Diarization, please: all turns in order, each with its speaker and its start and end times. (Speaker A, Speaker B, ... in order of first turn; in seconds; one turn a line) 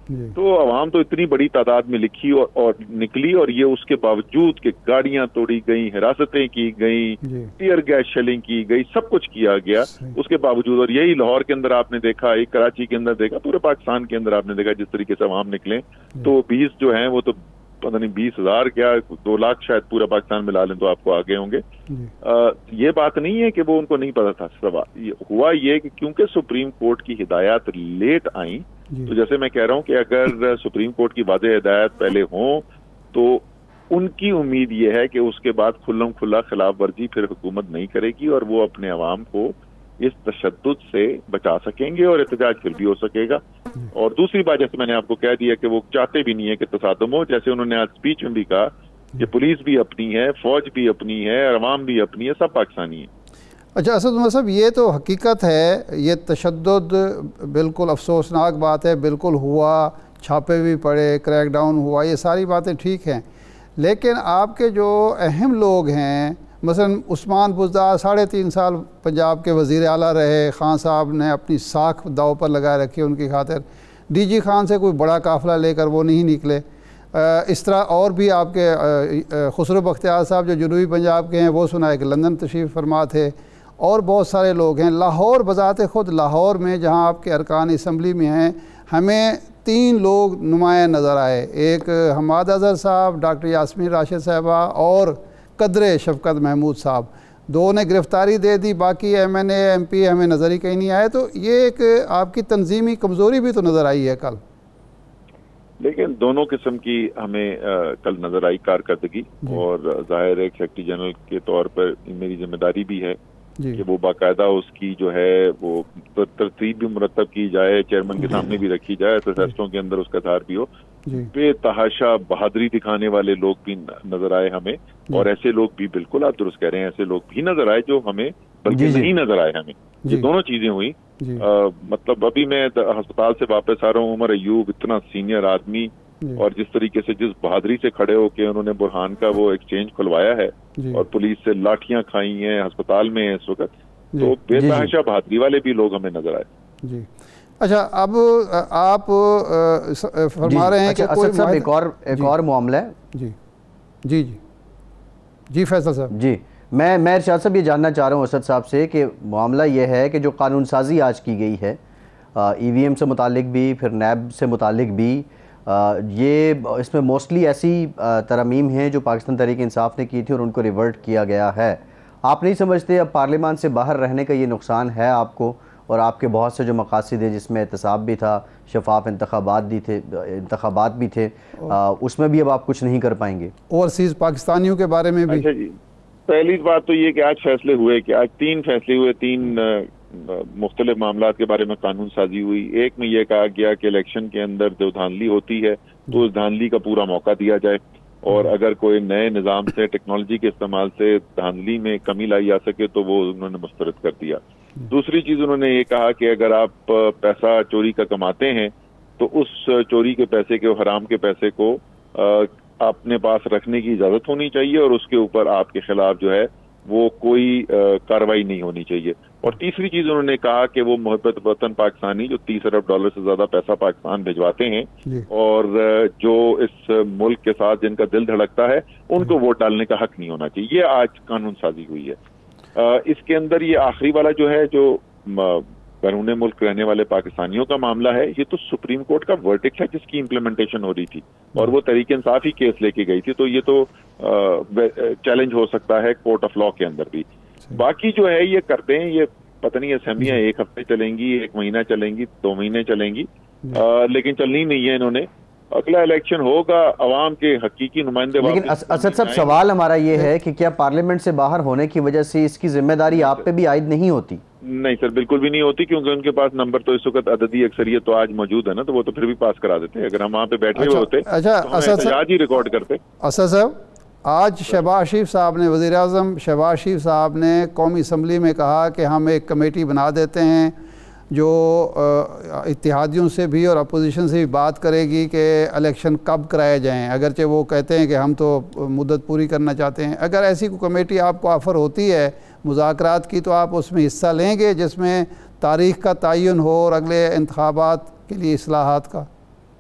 Speaker A: 0.1-0.3
Speaker B: 0.4-21.6
Speaker A: 7.2-7.5
Speaker A: 9.9-10.2
Speaker B: 22.2-43.4
Speaker B: 43.9-53.1
Speaker A: 53.8-63.2
Speaker A: 63.8-104.4
Speaker B: 105.8-113.2
Speaker B: 113.8-146.5
Speaker A: 118.2-118.5
Speaker A: 121.1-121.3
Speaker C: 128.7-129.1
Speaker A: 131.2-131.4
Speaker A: 140.8-141.0
Speaker C: 144.5-144.9
Speaker A: 147.6-152.3
Speaker C: 150.4-152.9
Speaker A: 154.1-154.4
Speaker A: 155.5-156.1
Speaker C: 156.1-161.8
Speaker C: 162.3-183.5
Speaker A: 183.7-185.5
Speaker B: 185.3-185.8
Speaker B: 186.3-232.2
Speaker B: 232.8-259.6
Speaker C: 258.4-264.4
Speaker B: 263.1-263.4
Speaker B: 264.6-273.0
Speaker A: 270.8-272.2
Speaker A: 273.2-280.7
Speaker A: 281.3-299.3